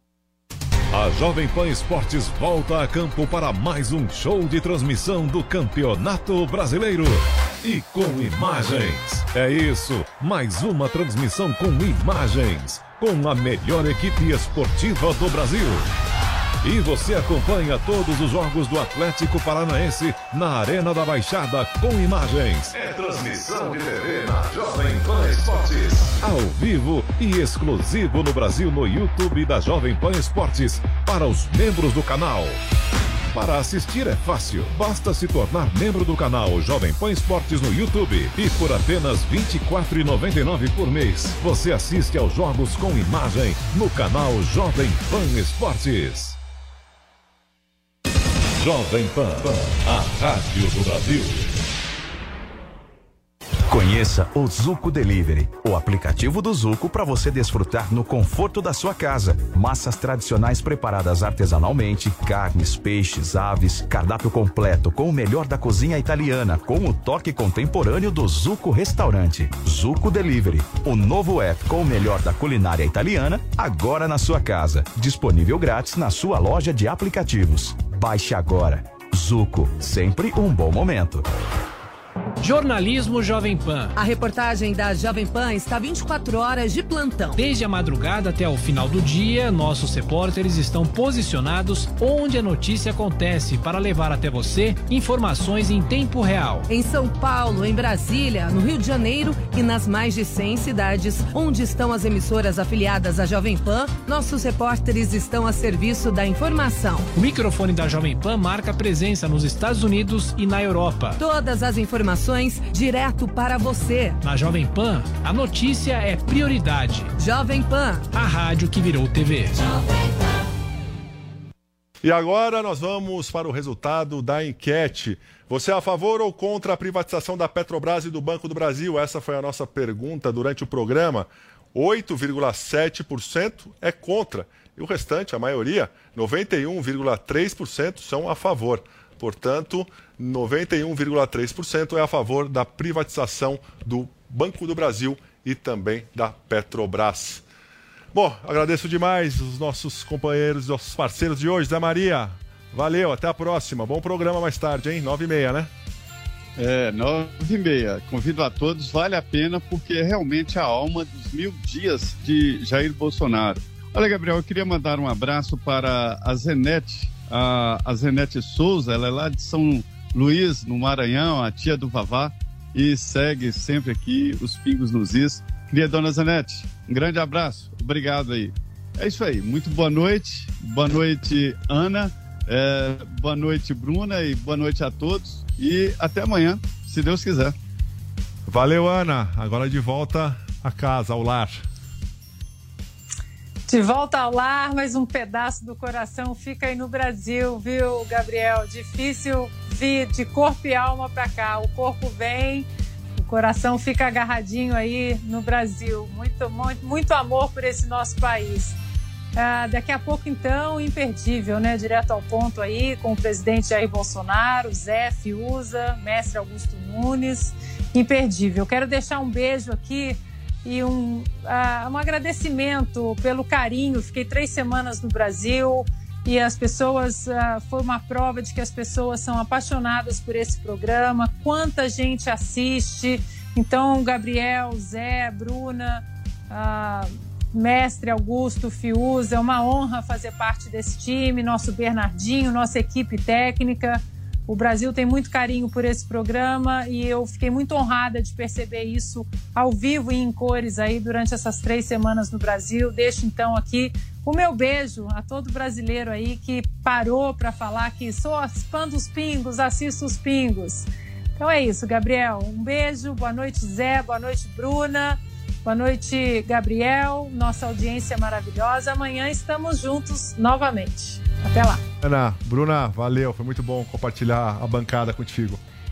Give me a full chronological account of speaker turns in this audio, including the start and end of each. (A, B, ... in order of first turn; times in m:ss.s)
0:00.9-0:15.9 A
0:16.6-0:32.6 A
0:33.3-0:46.4 A
0:48.6-0:51.5 A
0:53.7-1:21.2 B
1:22.4-1:23.9 C
1:24.0-1:27.4 D
1:27.4-1:36.6 C
1:36.7-1:47.1 D
1:47.1-1:51.2 C
1:51.2-1:54.2 D
1:54.2-1:57.1 C
1:57.2-1:58.1 D
1:58.1-1:59.6 C
2:02.0-2:27.4 E
2:28.1-2:35.7 E
2:36.6-3:07.5 F
3:08.5-3:11.6 E
3:13.7-3:22.7 G
3:23.2-3:28.8 G
3:29.4-4:31.8 G
4:32.0-4:35.6 E